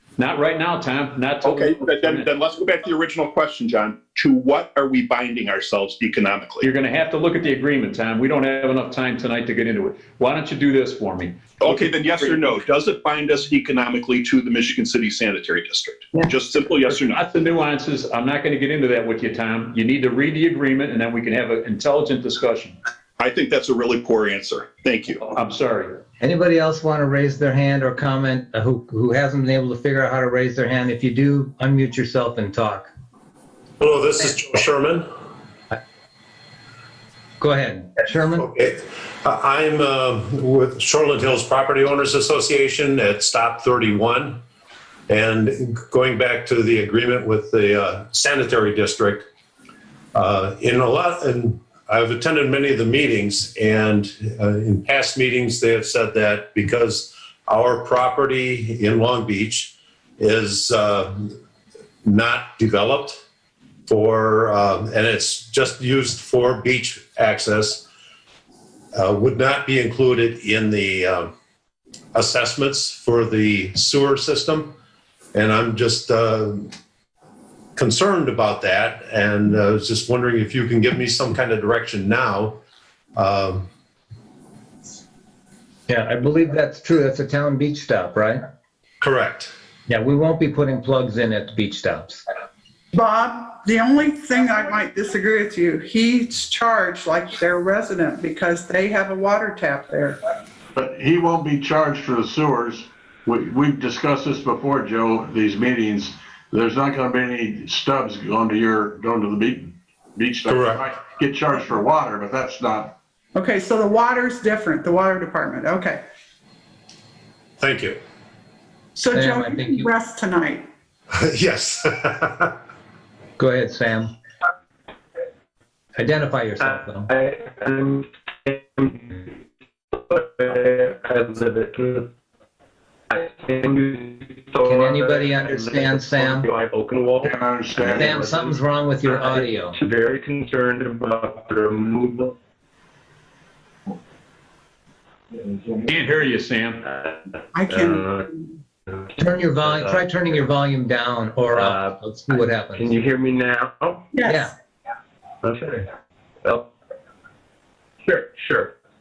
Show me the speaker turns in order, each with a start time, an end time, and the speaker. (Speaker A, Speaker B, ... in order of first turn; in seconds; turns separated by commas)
Speaker A: 0.2-2.3, Speaker B: 1.4-6.7, Speaker A: 6.6-11.4, Speaker B: 11.6-17.2, Speaker A: 16.8-22.8, Speaker B: 23.2-25.3, Speaker A: 25.3-26.0, Speaker C: 26.2-32.9, Speaker D: 33.8-35.1, Speaker C: 37.4-38.5, Speaker D: 38.4-44.4, Speaker D: 45.1-49.2, Speaker D: 50.1-61.1, Speaker D: 62.0-63.2, Speaker D: 63.9-67.8, Speaker D: 68.9-71.3, Speaker D: 72.1-74.7, Speaker D: 75.3-76.7, Speaker D: 77.8-82.6, Speaker D: 83.2-83.7, Speaker C: 85.9-88.4, Speaker D: 89.0-89.5, Speaker C: 89.9-92.2, Speaker E: 92.9-100.2, Speaker F: 100.7-112.9, Speaker D: 110.5-110.8, Speaker E: 113.3-116.0, Speaker D: 117.6-118.0, Speaker E: 119.0-120.7, Speaker C: 119.1-119.9, Speaker D: 121.1-122.5, Speaker C: 123.4-124.1, Speaker C: 126.0-127.1, Speaker G: 126.6-129.3, Speaker G: 130.1-132.0, Speaker G: 133.1-142.3, Speaker C: 134.6-136.5, Speaker F: 137.2-138.3, Speaker C: 137.8-139.8, Speaker A: 145.9-146.9, Speaker E: 147.5-148.3, Speaker C: 149.2-152.9, Speaker G: 149.7-150.0, Speaker G: 151.5-154.0, Speaker E: 154.1-154.4, Speaker C: 154.2-154.5, Speaker G: 155.4-155.8, Speaker G: 158.1-158.7